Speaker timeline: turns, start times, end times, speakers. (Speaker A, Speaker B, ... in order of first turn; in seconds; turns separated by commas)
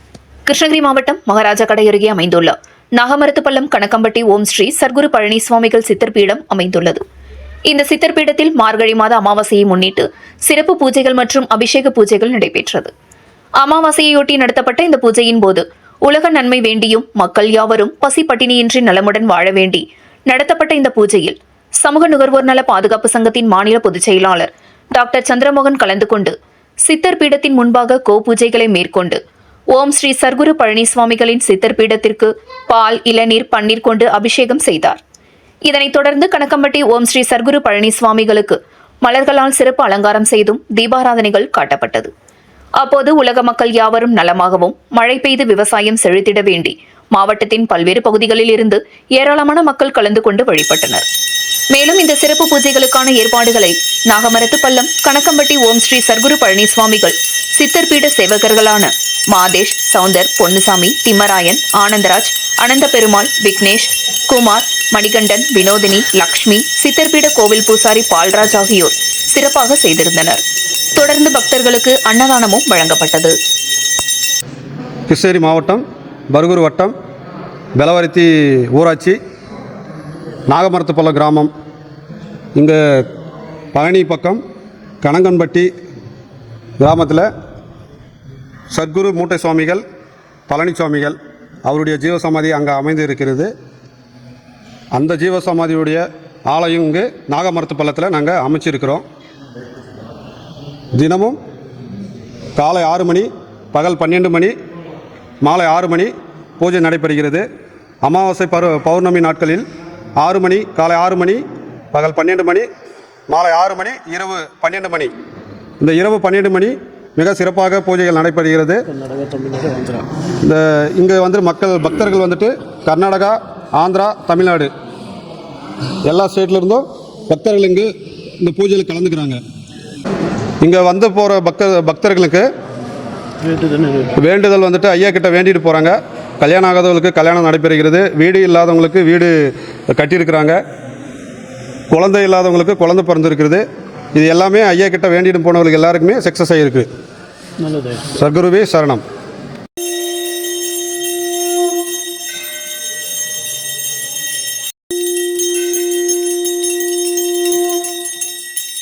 Speaker A: 0.5-7.0, Speaker A: 7.7-12.9, Speaker A: 13.6-29.2, Speaker A: 29.7-35.0, Speaker A: 35.6-42.1, Speaker A: 42.8-51.0, Speaker A: 51.7-70.4, Speaker A: 70.9-73.3, Speaker B: 75.1-76.9, Speaker B: 77.8-79.2, Speaker B: 80.5-81.5, Speaker B: 82.5-83.1, Speaker B: 83.7-84.4, Speaker B: 85.0-85.7, Speaker B: 86.8-87.3, Speaker B: 88.7-89.8, Speaker B: 90.5-93.5, Speaker B: 94.9-99.0, Speaker B: 100.9-101.4, Speaker B: 102.5-104.5, Speaker B: 105.4-107.4, Speaker B: 108.0-109.7, Speaker B: 110.2-112.7, Speaker B: 113.3-115.1, Speaker B: 115.8-118.8, Speaker C: 118.9-120.1, Speaker B: 120.4-124.7, Speaker B: 126.0-129.4, Speaker B: 130.6-132.4, Speaker C: 133.5-134.1, Speaker B: 134.1-140.6, Speaker B: 141.9-146.9, Speaker C: 147.7-148.0, Speaker B: 148.1-149.0